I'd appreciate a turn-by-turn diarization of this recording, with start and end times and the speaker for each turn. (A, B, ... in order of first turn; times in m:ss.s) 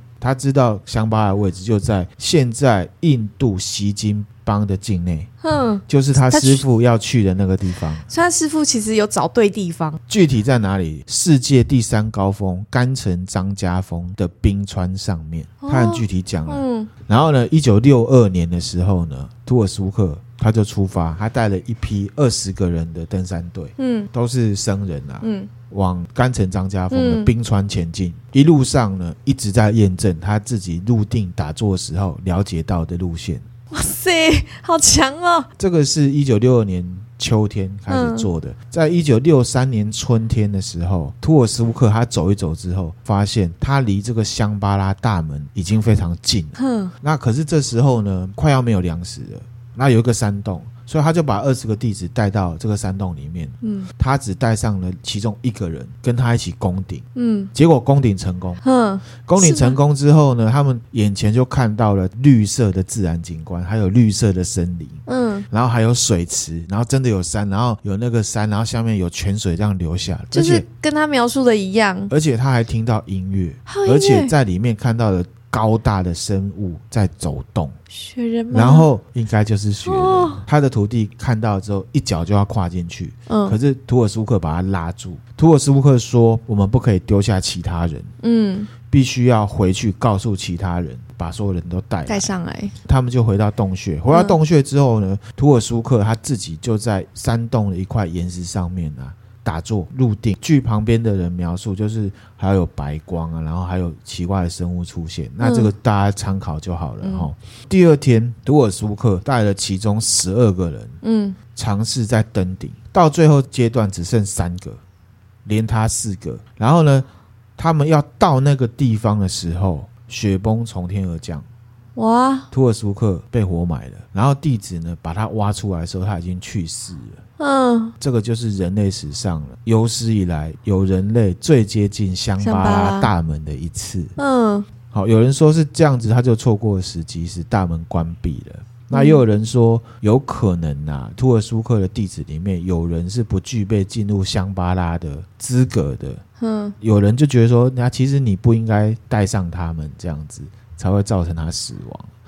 0:00.2-0:05.3 A
0:05.4-0:06.6 B
0:05.9-0:08.0 A
0:08.1-0:10.0 B
0:10.1-0:33.4 A
0:15.6-0:16.9 B
0:23.8-0:24.1 B
0:25.2-0:25.5 B
0:26.9-0:27.3 B
0:33.7-0:35.5 B
0:35.6-0:58.6 A
0:37.9-0:38.3 B
0:46.6-0:46.9 B
0:53.6-0:53.9 B
0:57.1-0:57.5 B
0:58.6-0:59.8 B
0:59.2-1:10.6 A
1:05.0-1:05.5 B
1:10.3-1:12.1 B
1:12.1-1:17.7 A
1:13.7-1:14.3 B
1:17.9-1:18.9 B
1:18.5-1:28.1 A
1:19.8-1:20.4 B
1:23.3-1:23.6 B
1:28.2-1:28.7 B
1:28.9-1:32.3 A
1:32.1-1:32.7 B
1:32.8-1:51.0 A
1:34.1-1:34.4 B
1:45.4-1:45.7 B
1:47.0-1:47.3 B
1:51.0-1:51.4 B
1:51.5-1:54.8 A
1:55.4-2:01.4 A
2:02.0-2:02.5 B
2:02.5-2:07.2 A
2:07.4-2:07.9 B
2:08.0-2:14.2 A
2:12.4-2:13.1 B
2:14.2-2:14.7 B
2:14.9-2:26.2 A
2:18.9-2:19.2 B
2:26.4-2:26.8 B
2:26.8-2:32.1 A